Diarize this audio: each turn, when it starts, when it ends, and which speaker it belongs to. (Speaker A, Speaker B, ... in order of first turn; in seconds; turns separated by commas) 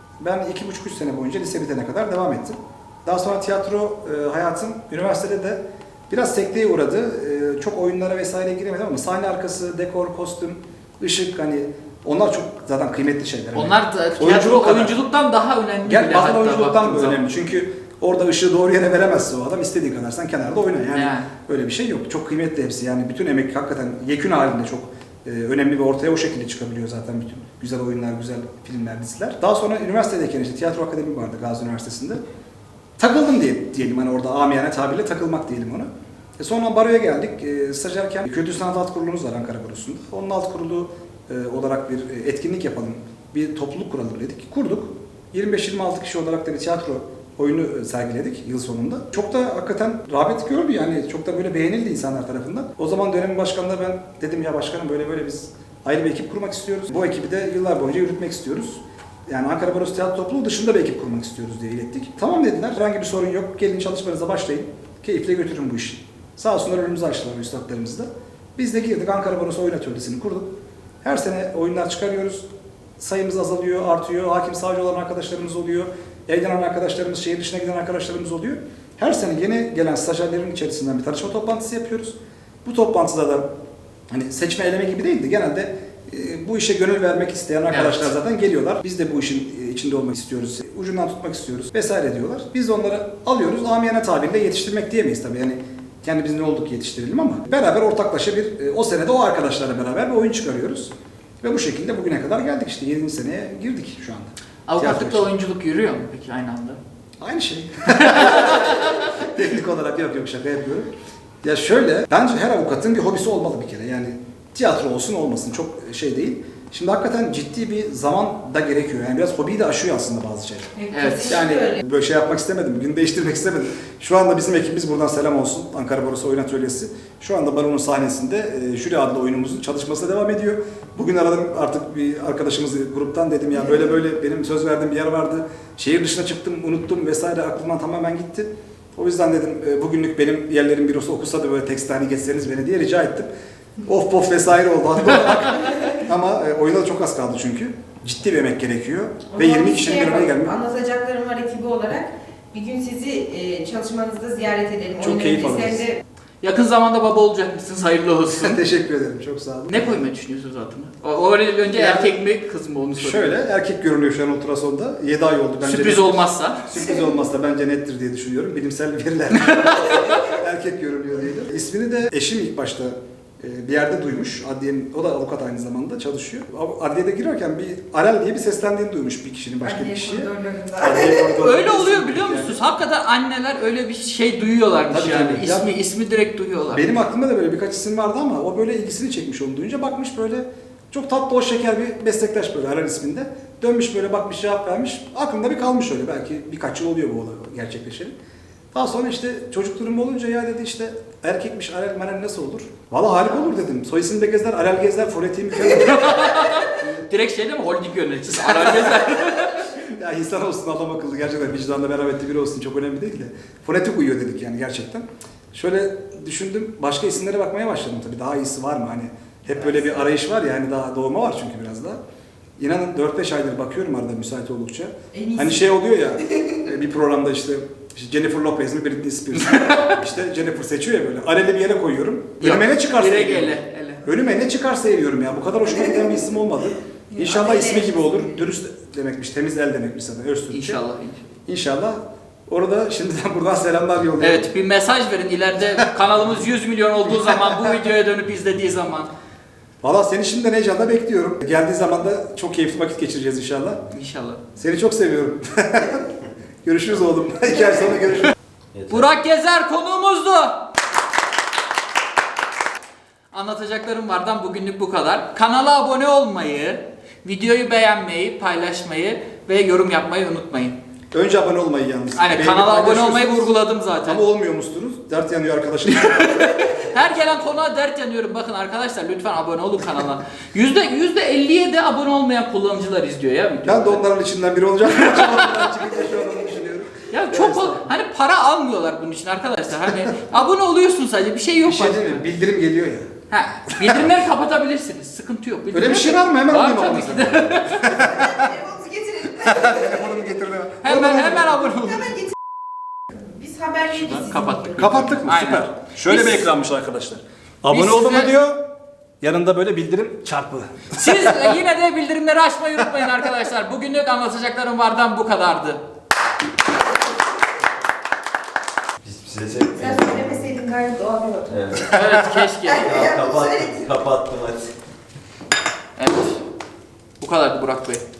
Speaker A: 0.2-15.0, Speaker B: 13.5-17.2, Speaker A: 15.8-32.2, Speaker B: 20.9-21.3, Speaker A: 33.0-72.5, Speaker A: 73.0-83.5, Speaker A: 84.1-105.3, Speaker B: 87.7-88.1, Speaker B: 104.7-106.8, Speaker A: 107.2-110.9, Speaker B: 108.0-109.1, Speaker A: 111.4-143.3, Speaker C: 120.8-121.8, Speaker B: 120.9-121.3, Speaker A: 143.8-150.5, Speaker C: 149.3-156.0, Speaker A: 155.0-155.8, Speaker B: 156.4-158.6, Speaker A: 158.3-160.0, Speaker B: 159.7-163.3, Speaker A: 161.7-162.2, Speaker A: 163.0-182.6, Speaker B: 165.6-166.6, Speaker B: 169.4-170.1, Speaker C: 179.6-181.4, Speaker B: 181.4-186.9, Speaker A: 184.9-185.7, Speaker A: 186.7-198.2, Speaker A: 198.7-207.1, Speaker B: 205.8-209.7, Speaker A: 208.3-222.0, Speaker A: 222.6-240.8, Speaker C: 225.1-226.6, Speaker B: 229.6-229.9, Speaker B: 232.4-234.0, Speaker C: 237.1-238.4, Speaker B: 240.5-241.2, Speaker A: 241.5-244.5, Speaker B: 244.2-249.1, Speaker A: 247.1-247.8, Speaker A: 249.8-253.8, Speaker B: 253.9-254.4, Speaker A: 254.6-256.1, Speaker A: 256.6-258.3, Speaker D: 258.7-259.1, Speaker B: 258.9-260.6, Speaker B: 263.3-270.8, Speaker A: 271.1-276.8, Speaker B: 272.1-274.2, Speaker B: 276.1-284.0, Speaker A: 283.6-287.9, Speaker B: 284.9-285.7, Speaker B: 287.1-292.2, Speaker A: 291.6-293.1, Speaker B: 293.3-298.1, Speaker A: 293.7-294.1, Speaker A: 295.7-298.6, Speaker C: 297.9-300.1, Speaker A: 299.3-301.6, Speaker B: 300.8-302.3, Speaker C: 303.1-304.9, Speaker B: 303.9-306.5, Speaker A: 304.7-308.6, Speaker B: 307.7-308.3, Speaker A: 309.2-311.5, Speaker B: 310.9-315.8, Speaker D: 319.0-320.4, Speaker C: 319.7-321.7, Speaker D: 321.5-322.0, Speaker B: 321.9-322.9, Speaker C: 322.6-323.9, Speaker D: 322.7-324.7, Speaker B: 326.0-326.4, Speaker B: 327.2-328.0